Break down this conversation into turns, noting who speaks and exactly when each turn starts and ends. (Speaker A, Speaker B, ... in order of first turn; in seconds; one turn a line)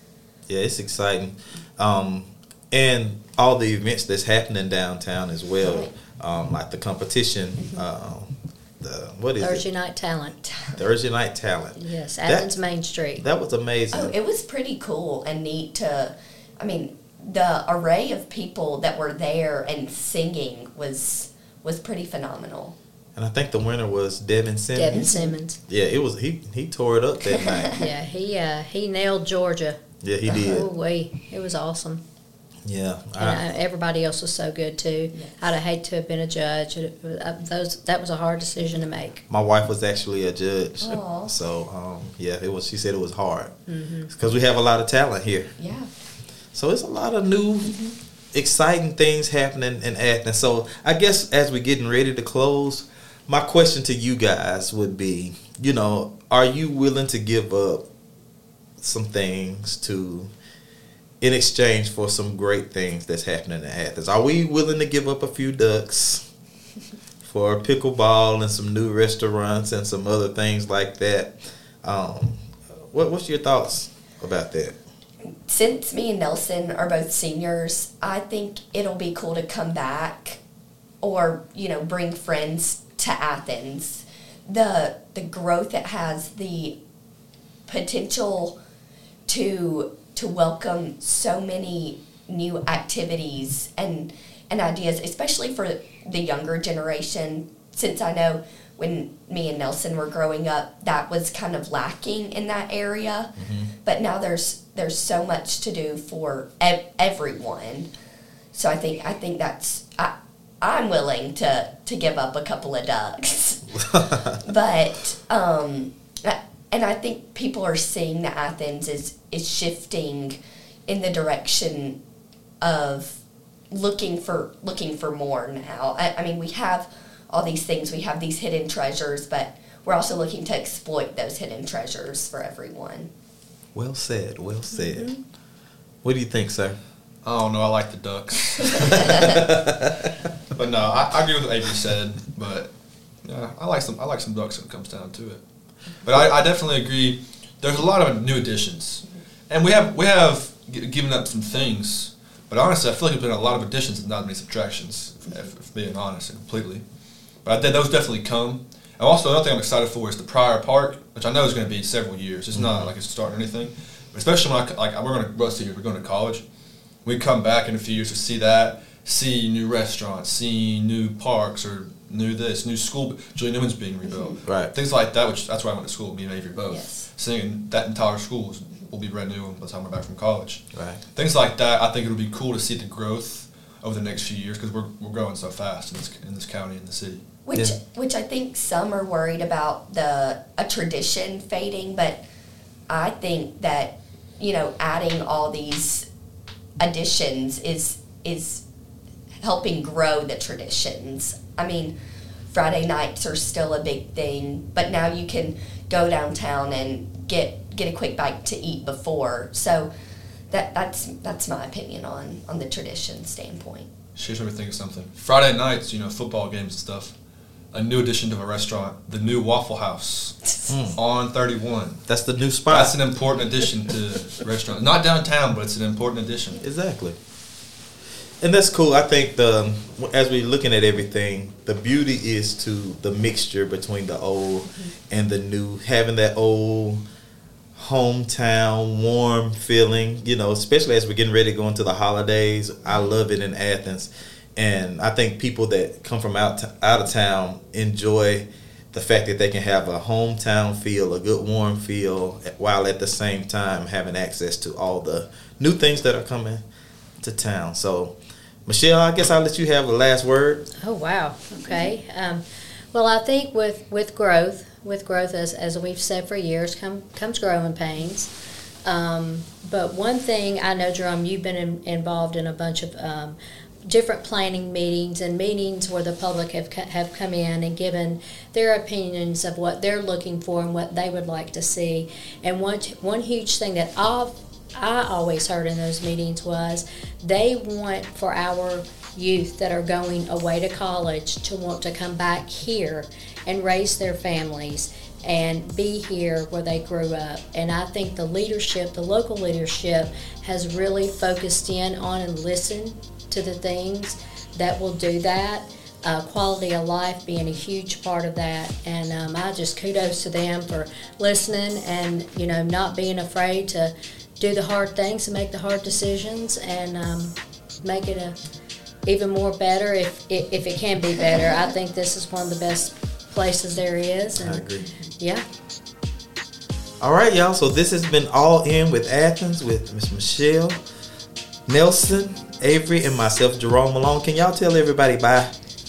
Speaker A: 0.5-9.7
Speaker B: 5.6-5.9
Speaker C: 9.4-10.4
Speaker B: 10.4-10.8
Speaker A: 10.8-14.2
Speaker C: 11.8-13.2
Speaker B: 13.9-22.7
Speaker A: 23.2-25.1
Speaker C: 24.8-25.6
Speaker B: 24.9-25.4
Speaker A: 25.7-27.7
Speaker B: 27.3-27.7
Speaker C: 27.8-32.0
Speaker A: 30.0-30.7
Speaker A: 32.6-33.4
Speaker C: 33.2-39.2
Speaker B: 35.1-35.5
Speaker A: 39.3-43.5
Speaker B: 40.8-41.3
Speaker C: 43.7-44.1
Speaker A: 44.1-45.6
Speaker B: 45.6-45.9
Speaker A: 46.5-47.8
Speaker B: 47.6-48.0
Speaker A: 48.3-57.9
Speaker A: 58.8-60.3
Speaker A: 61.2-66.2
Speaker A: 67.2-74.8
Speaker B: 75.5-80.4
Speaker B: 81.0-86.8
Speaker B: 87.7-88.6
Speaker B: 89.3-103.3
Speaker A: 103.4-103.7
Speaker B: 103.8-107.9
Speaker B: 108.5-113.8
Speaker A: 113.8-114.3
Speaker B: 114.4-122.0
Speaker B: 122.6-133.1
Speaker A: 133.8-135.2
Speaker C: 134.8-135.2
Speaker A: 136.0-136.8
Speaker D: 137.2-139.4
Speaker A: 139.1-140.1
Speaker D: 140.5-142.7
Speaker D: 143.2-145.4
Speaker D: 146.0-156.8
Speaker D: 157.4-166.4
Speaker A: 162.5-162.9
Speaker D: 167.1-187.2
Speaker B: 174.0-174.4
Speaker A: 174.5-174.7
Speaker B: 176.7-177.1
Speaker A: 180.7-181.0
Speaker B: 187.4-192.2
Speaker B: 192.9-196.1
Speaker B: 196.8-198.6
Speaker B: 199.4-201.9
Speaker B: 202.5-209.9
Speaker B: 210.5-213.9
Speaker D: 214.2-217.2
Speaker D: 217.7-222.0
Speaker A: 220.7-221.0
Speaker A: 222.1-223.0
Speaker D: 222.7-226.6
Speaker A: 226.6-227.2
Speaker A: 228.4-237.0
Speaker A: 237.8-256.6
Speaker A: 257.2-260.7
Speaker C: 260.8-268.3
Speaker B: 261.6-261.9
Speaker C: 268.8-318.4
Speaker C: 319.1-324.6
Speaker A: 324.4-324.9
Speaker C: 325.2-325.4
Speaker A: 327.0-330.8
Speaker A: 331.7-335.5